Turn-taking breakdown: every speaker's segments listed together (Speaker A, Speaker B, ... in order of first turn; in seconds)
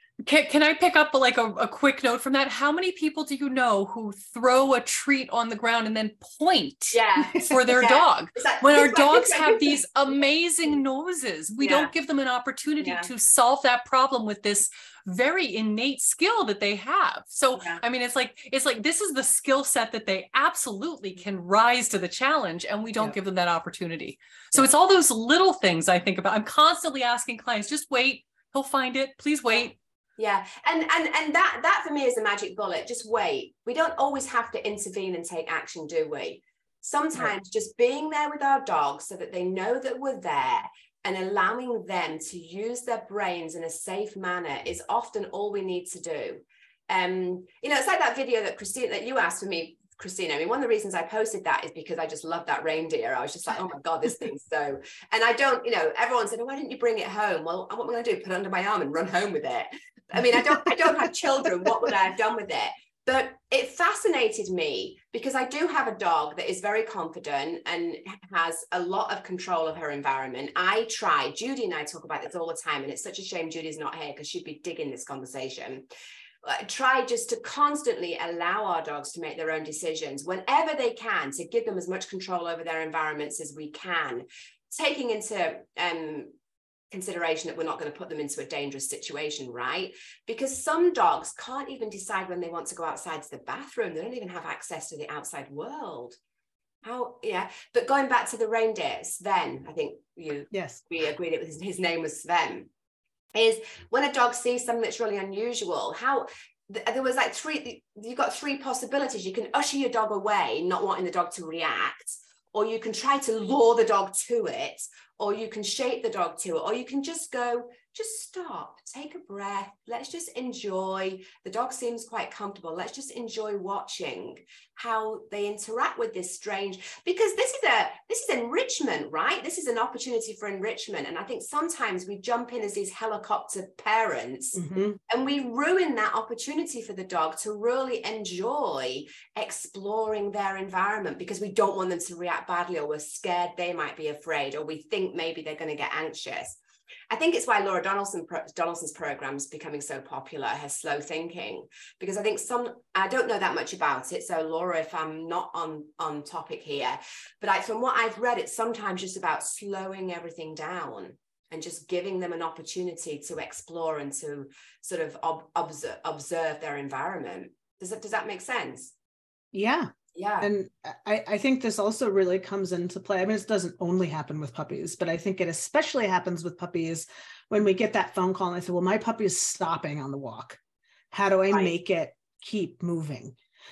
Speaker A: 0.2-29.8
Speaker B: 6.9-9.8, 11.6-11.9, 12.8-13.1, 17.6-17.8, 29.5-75.9, 76.4-86.3, 86.9-96.2, 96.8-102.7, 103.3-146.6, 147.1-168.9, 170.2-170.5
Speaker C: 7.3-7.6, 100.5-100.8, 134.6-135.0, 169.5-180.6, 181.1-183.3